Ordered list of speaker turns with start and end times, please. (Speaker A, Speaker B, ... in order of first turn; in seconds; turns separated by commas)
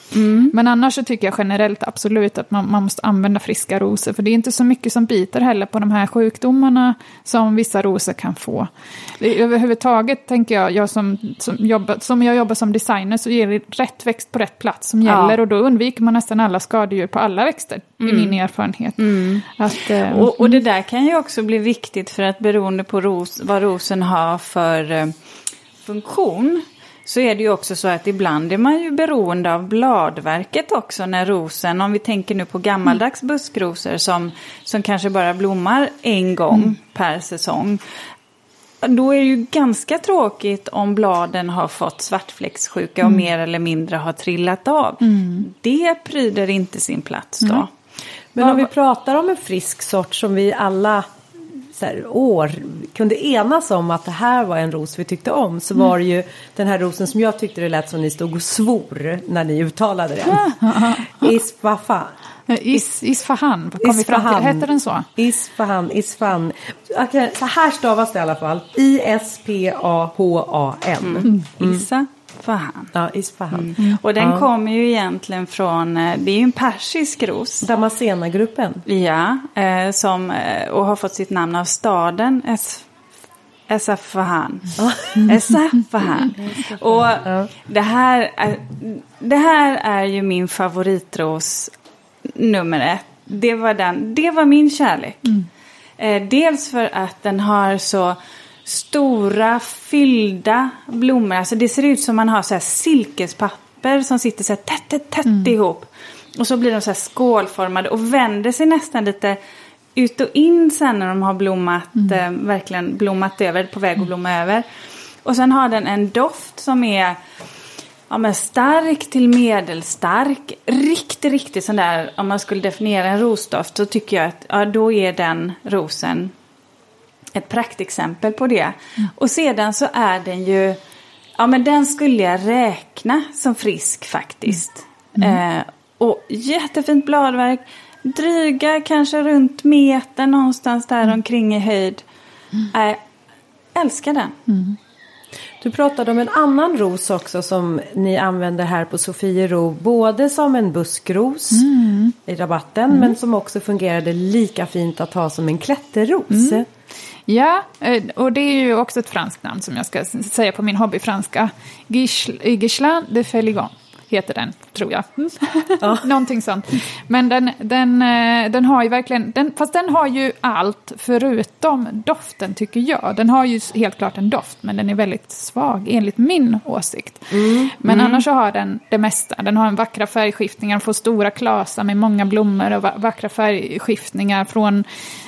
Speaker A: 0.1-0.5, Speaker B: 0.5-20.6, Speaker A: 15.0-15.4, Speaker A: 18.0-18.4, Speaker A: 19.0-25.1, Speaker A: 25.8-37.8, Speaker A: 38.8-47.7, Speaker B: 45.0-45.4, Speaker C: 48.3-62.1, Speaker A: 48.4-48.6, Speaker B: 60.4-61.1, Speaker B: 62.5-65.1, Speaker C: 63.8-71.8, Speaker A: 71.0-72.9, Speaker C: 72.9-74.5, Speaker A: 73.5-77.7, Speaker C: 77.6-78.8, Speaker A: 78.9-82.9, Speaker A: 83.7-91.7, Speaker C: 84.8-85.3, Speaker C: 86.3-87.5, Speaker A: 92.3-95.3, Speaker A: 96.0-109.4, Speaker B: 105.2-105.5, Speaker A: 109.9-114.7, Speaker A: 115.2-117.2, Speaker A: 118.1-126.3, Speaker A: 127.3-130.8, Speaker A: 131.3-142.0, Speaker A: 142.7-143.0, Speaker A: 143.7-144.3, Speaker B: 144.5-144.8, Speaker C: 145.6-151.7, Speaker B: 151.5-152.2, Speaker C: 152.2-156.7, Speaker B: 156.3-156.6, Speaker B: 157.3-184.8, Speaker C: 165.8-166.1, Speaker C: 177.3-177.7, Speaker A: 177.8-178.2